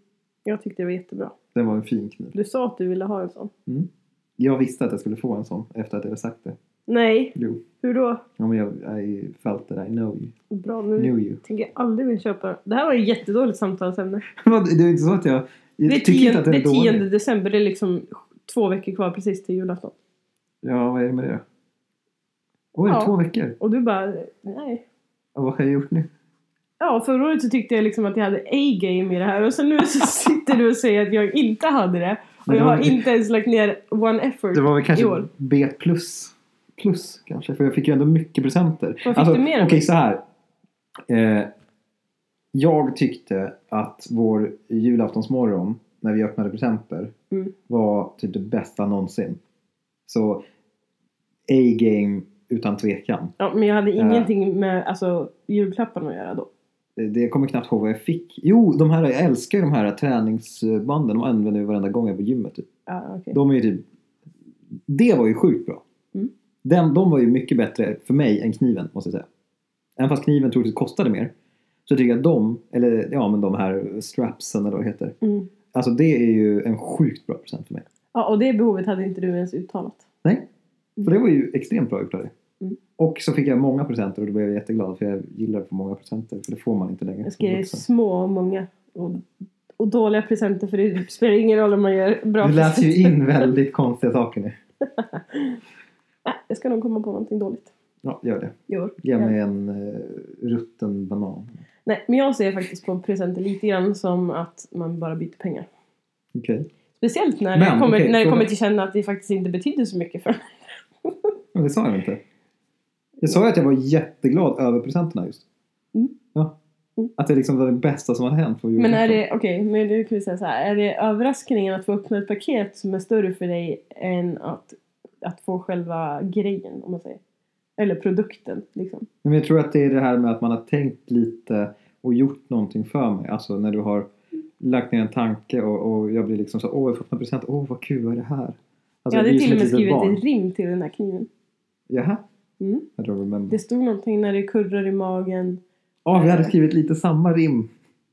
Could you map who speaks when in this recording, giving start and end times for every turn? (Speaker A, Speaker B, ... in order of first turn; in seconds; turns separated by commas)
Speaker A: 0.5-1.3, Speaker B: 1.5-2.3, Speaker A: 2.3-3.5, Speaker B: 3.7-6.5, Speaker A: 6.9-8.2, Speaker B: 7.3-7.6, Speaker B: 8.4-10.3, Speaker A: 10.5-14.2, Speaker B: 11.0-11.4, Speaker B: 14.3-17.0, Speaker A: 15.8-19.9, Speaker B: 20.6-21.4, Speaker B: 22.7-23.6, Speaker A: 22.9-24.8, Speaker B: 25.3-26.1, Speaker A: 26.8-35.3, Speaker B: 32.5-33.0, Speaker B: 34.5-40.2, Speaker A: 39.0-39.8, Speaker B: 41.1-41.5, Speaker B: 42.5-47.1, Speaker B: 47.7-49.4, Speaker B: 50.1-50.4, Speaker B: 51.5-53.3, Speaker A: 53.4-56.5, Speaker B: 54.0-54.3, Speaker B: 57.0-62.7, Speaker A: 62.9-63.4, Speaker B: 63.3-63.8, Speaker B: 64.9-65.8, Speaker B: 66.6-69.2, Speaker B: 70.0-71.3, Speaker B: 71.9-75.1, Speaker A: 75.2-75.5, Speaker B: 75.7-77.8, Speaker A: 78.1-80.0, Speaker B: 81.0-82.3, Speaker B: 83.0-87.8, Speaker A: 87.2-89.3, Speaker A: 89.8-93.5, Speaker B: 92.4-94.5, Speaker A: 94.9-95.6, Speaker A: 96.2-97.7, Speaker B: 98.0-101.6, Speaker A: 98.7-99.3, Speaker A: 101.8-105.7, Speaker B: 106.3-106.7, Speaker A: 107.0-111.3, Speaker B: 107.5-108.5, Speaker B: 111.5-112.2, Speaker B: 113.2-115.4, Speaker B: 117.2-119.2, Speaker A: 118.8-127.2, Speaker A: 127.8-129.1, Speaker B: 129.2-134.1, Speaker B: 134.6-140.2, Speaker A: 139.1-141.3, Speaker B: 141.9-142.2, Speaker A: 142.6-142.9, Speaker B: 143.0-143.6, Speaker A: 143.5-145.6, Speaker B: 146.0-147.7, Speaker A: 146.1-146.5